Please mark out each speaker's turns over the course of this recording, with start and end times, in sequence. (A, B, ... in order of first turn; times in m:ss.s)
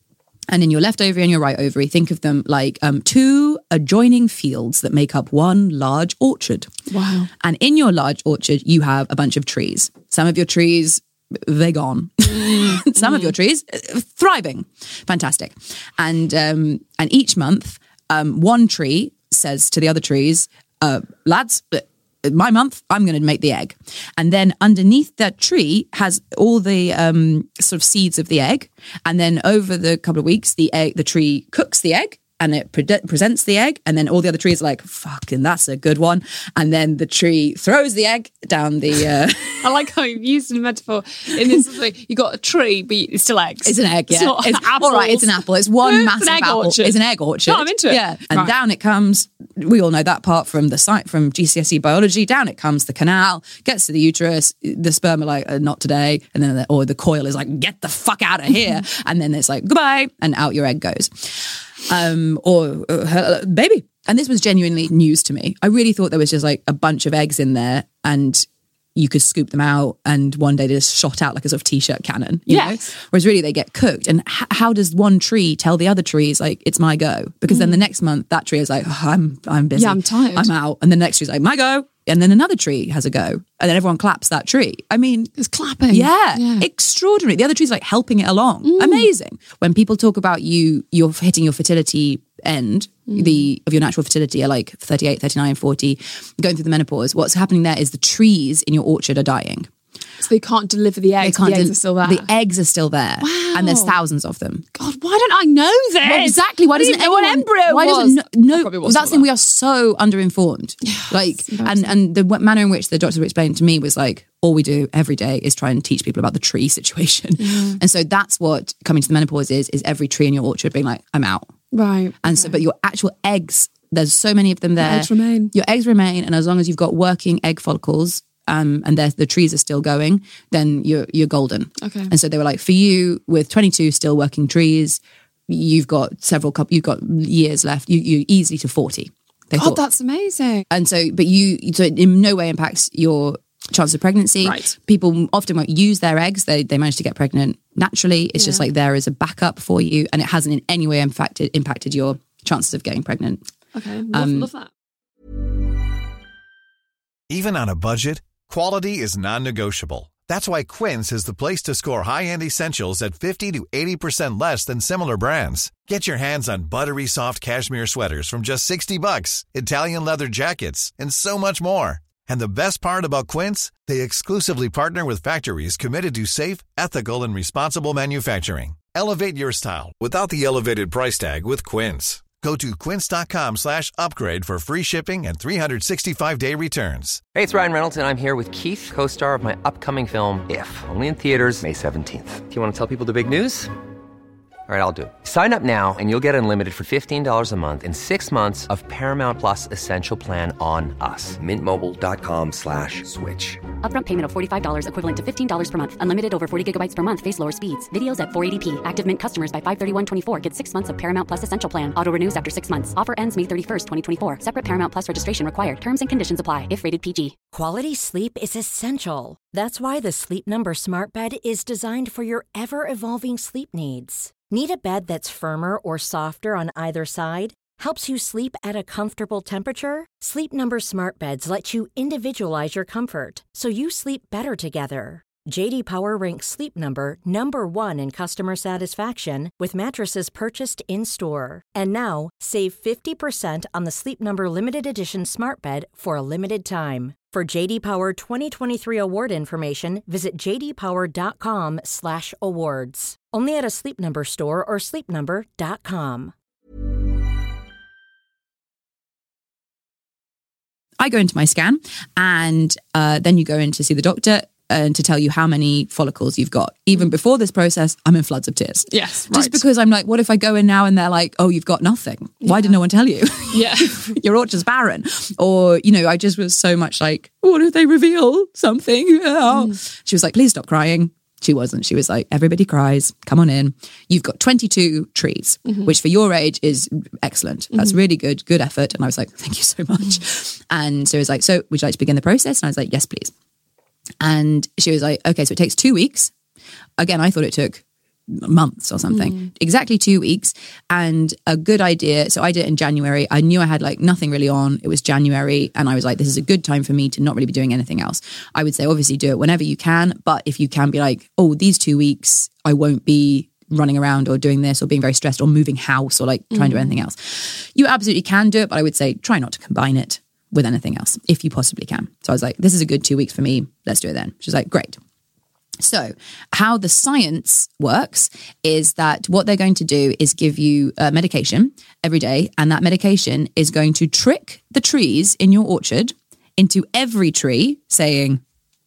0:00.5-0:06.7 A
0:06.9-0:07.3 B
0:07.4-0:39.7 A
0:12.3-0:13.3 B
0:39.6-0:48.5 B
0:43.6-1:25.3 A
1:12.5-1:12.8 B
1:17.5-1:17.8 B
1:19.8-1:20.5 B
1:25.4-1:26.7 B
1:25.9-1:39.7 A
1:28.6-1:29.1 B
1:33.1-1:33.5 B
1:40.2-1:42.3 B
1:41.2-1:44.6 A
1:43.2-1:44.0 B
1:44.8-1:49.3 B
1:46.0-2:01.5 A
1:50.8-1:51.9 B
1:57.4-1:57.8 B
2:01.7-2:02.6 B
2:02.2-2:19.8 A
2:04.8-2:05.5 B
2:11.8-2:12.1 B
2:19.6-2:20.6 B
2:20.7-2:33.4 A
2:24.4-2:24.7 B
2:28.4-2:28.7 B
2:33.8-2:34.7 B
2:34.1-2:34.5 A
2:37.3-3:07.2 C
3:07.3-3:13.7 D
3:14.7-3:23.6 D
3:23.8-3:37.4 E
3:37.5-4:16.3 F
4:21.0-4:53.3 A
4:28.9-4:29.6 B
4:32.4-4:32.8 B
4:33.5-4:34.1 B
4:39.5-4:39.8 B
4:45.7-4:45.9 B
4:54.2-4:56.3 A
4:57.0-5:25.0 A
4:59.1-4:59.5 B
5:16.5-5:16.9 B
5:25.8-5:38.4 A